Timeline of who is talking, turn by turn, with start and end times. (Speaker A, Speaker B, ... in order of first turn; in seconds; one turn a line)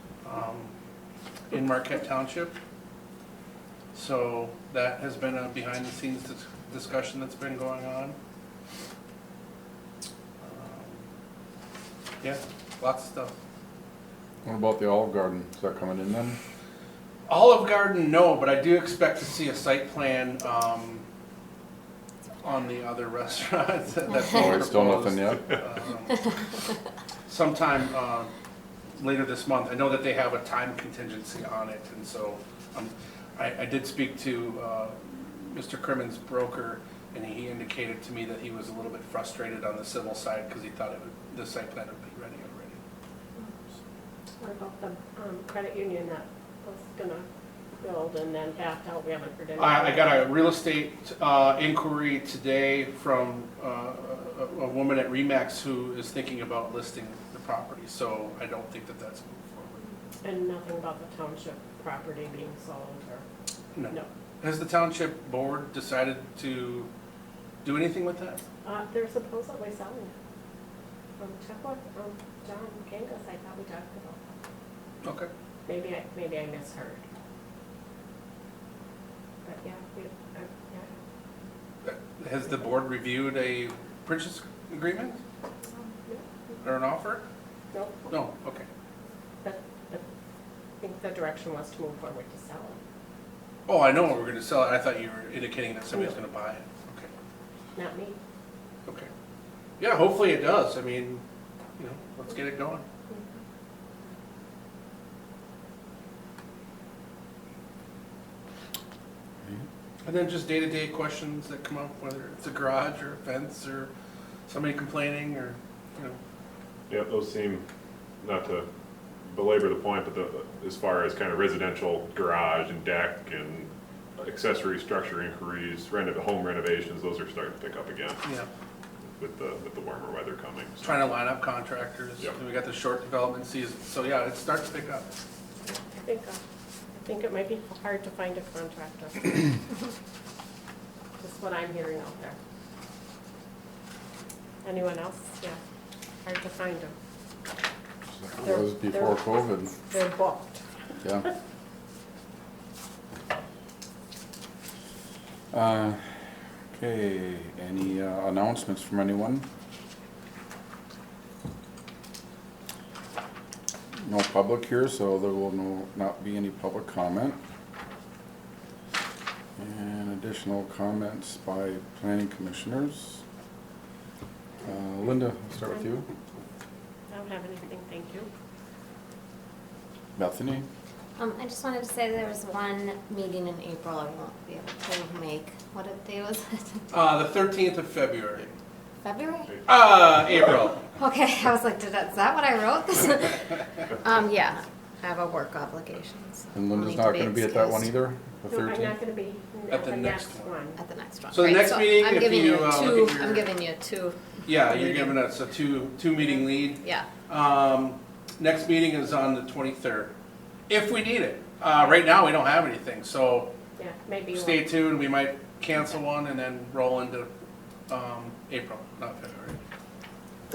Speaker A: 0.2-0.7
Speaker A: 1.5-2.5
Speaker A: 3.9-8.2
Speaker A: 10.4-11.0
Speaker A: 12.2-13.3
Speaker B: 14.4-16.4
Speaker A: 17.3-21.1
Speaker A: 22.4-26.3
Speaker B: 24.2-25.5
Speaker A: 27.3-28.3
Speaker A: 29.0-42.8
Speaker C: 44.4-47.3
Speaker C: 47.8-50.2
Speaker A: 49.6-59.8
Speaker C: 60.2-63.2
Speaker A: 63.8-66.9
Speaker A: 67.6-68.4
Speaker C: 68.7-70.1
Speaker C: 71.2-74.3
Speaker A: 75.0-75.3
Speaker C: 75.7-77.0
Speaker C: 79.5-80.9
Speaker A: 81.8-85.2
Speaker C: 85.8-86.6
Speaker A: 86.6-87.2
Speaker C: 87.7-88.1
Speaker A: 88.1-88.7
Speaker C: 89.4-90.0
Speaker C: 90.8-92.8
Speaker A: 93.7-97.1
Speaker C: 97.8-98.2
Speaker A: 99.8-101.2
Speaker A: 101.8-102.8
Speaker A: 110.0-113.9
Speaker A: 114.5-116.2
Speaker D: 116.9-117.7
Speaker D: 118.2-118.7
Speaker D: 119.3-128.2
Speaker D: 129.2-131.2
Speaker A: 130.8-135.1
Speaker C: 135.7-136.4
Speaker C: 136.9-139.6
Speaker C: 141.2-142.4
Speaker C: 144.6-145.6
Speaker C: 146.2-146.9
Speaker B: 148.2-149.8
Speaker C: 148.4-150.6
Speaker B: 155.5-156.0
Speaker B: 156.7-159.4
Speaker B: 164.0-167.4
Speaker B: 169.6-173.2
Speaker B: 174.6-176.1
Speaker C: 177.1-178.3
Speaker B: 180.2-180.7
Speaker E: 181.2-187.0
Speaker A: 186.9-188.5
Speaker E: 189.0-189.7
Speaker A: 189.7-190.8
Speaker E: 191.0-197.9
Speaker B: 196.6-199.0
Speaker C: 198.5-200.8
Speaker A: 199.7-200.5
Speaker E: 200.8-205.1
Speaker A: 201.3-203.5
Speaker A: 204.5-210.1
Speaker E: 206.8-207.1
Speaker A: 210.7-213.5
Speaker C: 213.8-214.8
Speaker A: 214.3-217.3
Speaker A: 217.9-219.6